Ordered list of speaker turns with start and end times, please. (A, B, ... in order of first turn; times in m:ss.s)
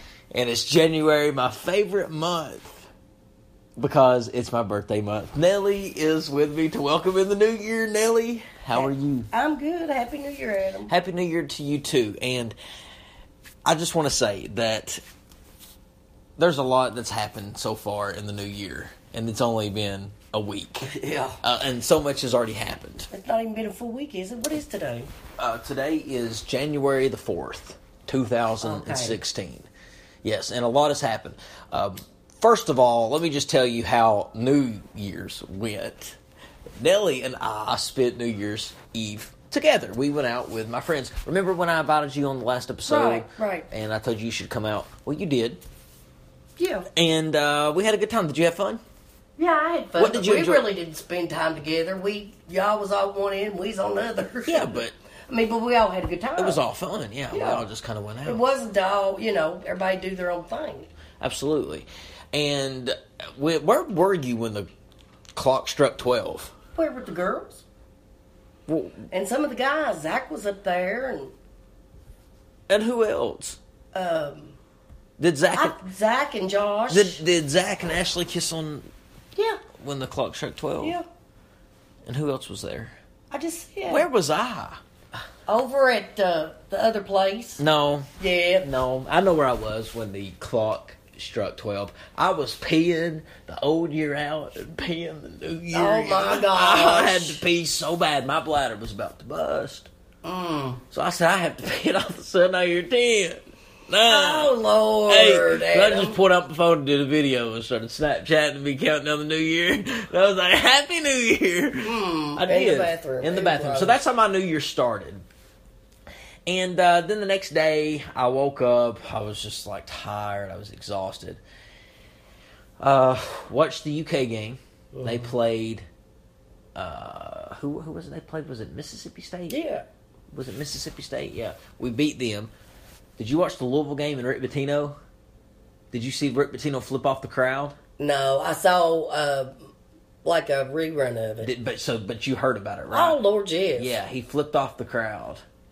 0:00.3-0:02.8 A
0:03.8-0:09.3 A
0:08.7-0:10.9 B
0:10.9-0:12.6 A
0:13.6-0:15.0 A
0:16.4-0:23.1 A
0:20.8-0:21.4 B
0:23.1-0:25.1 B
0:25.4-0:29.7 A
0:28.6-0:29.2 B
0:30.2-0:36.2 A
0:36.8-0:45.6 A
0:42.8-0:43.7 B
0:46.6-0:46.8 B
0:46.9-0:48.8 A
0:49.4-0:56.6 B
0:50.0-0:50.7 A
0:54.5-0:54.9 A
0:56.4-0:58.4 A
0:57.3-0:57.6 B
0:58.2-1:00.9 B
1:01.2-1:04.7 A
1:05.4-1:06.5 A
1:06.7-1:07.6 B
1:08.7-1:09.1 A
1:09.1-1:11.3 B
1:12.7-1:13.6 A
1:13.9-1:14.6 B
1:15.2-1:15.8 A
1:15.5-1:17.2 B
1:16.9-1:18.9 A
1:19.3-1:19.6 B
1:19.8-1:21.0 A
1:20.8-1:21.0 B
1:22.0-1:23.0 A
1:23.3-1:24.1 B
1:23.9-1:24.8 A
1:25.5-1:27.6 B
1:27.6-1:28.1 A
1:28.2-1:28.7 B
1:28.6-1:39.9 A
1:35.7-1:37.4 B
1:40.2-1:40.8 B
1:40.9-1:44.5 A
1:44.0-1:46.2 B
1:45.1-1:55.2 A
1:51.8-1:54.0 B
1:56.5-2:01.4 A
2:02.8-2:05.8 A
2:04.9-2:05.4 B
2:06.8-2:09.6 A
2:09.5-2:09.8 B
2:10.3-2:12.5 A
2:13.2-2:15.0 A
2:15.9-2:17.8 A
2:18.0-2:19.7 B
2:20.2-2:21.5 B
2:21.4-2:23.2 A
2:22.9-2:24.0 B
2:23.8-2:25.4 A